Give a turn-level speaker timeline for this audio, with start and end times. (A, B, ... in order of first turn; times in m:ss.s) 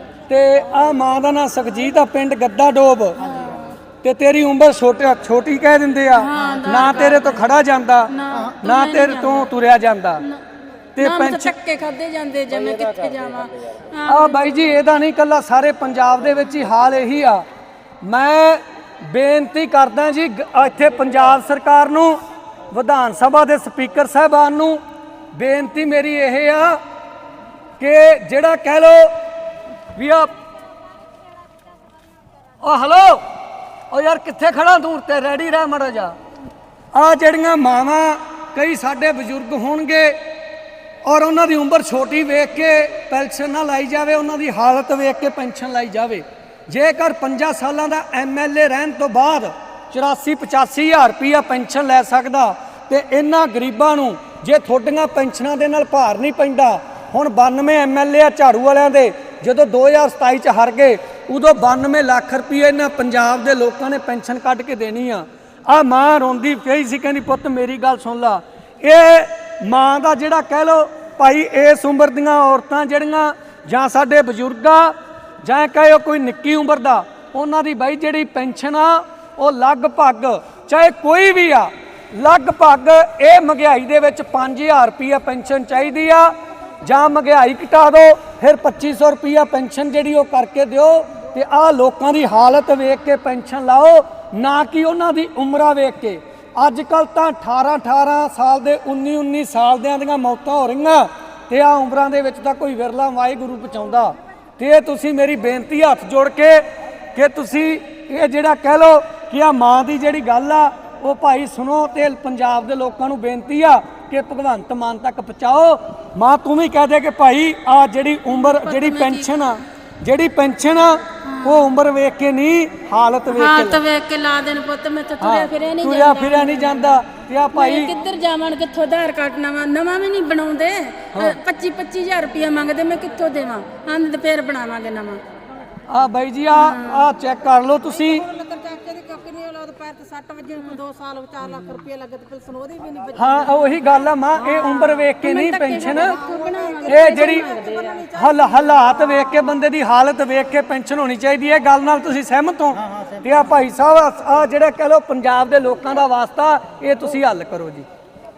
0:00.3-0:03.2 A
0:03.2-0:03.8 B
0:04.0-0:10.2 A
0:06.2-0:07.5 B
0:08.1-0:09.5 B
0:11.0-0:11.5 A
0:11.0-0:14.8 B
0:14.1-0:17.4 A
0:18.0-0:22.2 A
0:22.7-0:24.8 A
0:25.3-0:26.8 A
0:27.8-0:29.1 A
0:30.0-0:30.3 A
0:32.6-0:33.2 A
0:33.9-0:36.2 A
0:36.9-0:40.2 A
0:41.0-2:03.8 A
1:58.3-1:59.3 B
2:01.2-2:01.7 B
2:03.3-2:07.0 B
2:05.2-2:07.9 A
2:07.5-2:15.2 B
2:11.1-2:11.4 A
2:15.9-2:18.3 A
2:16.5-2:17.1 B
2:18.1-2:23.3 C
2:23.2-2:26.2 A
2:24.4-2:28.1 B
2:25.9-2:28.9 C
2:26.9-2:27.5 A
2:28.1-2:37.9 A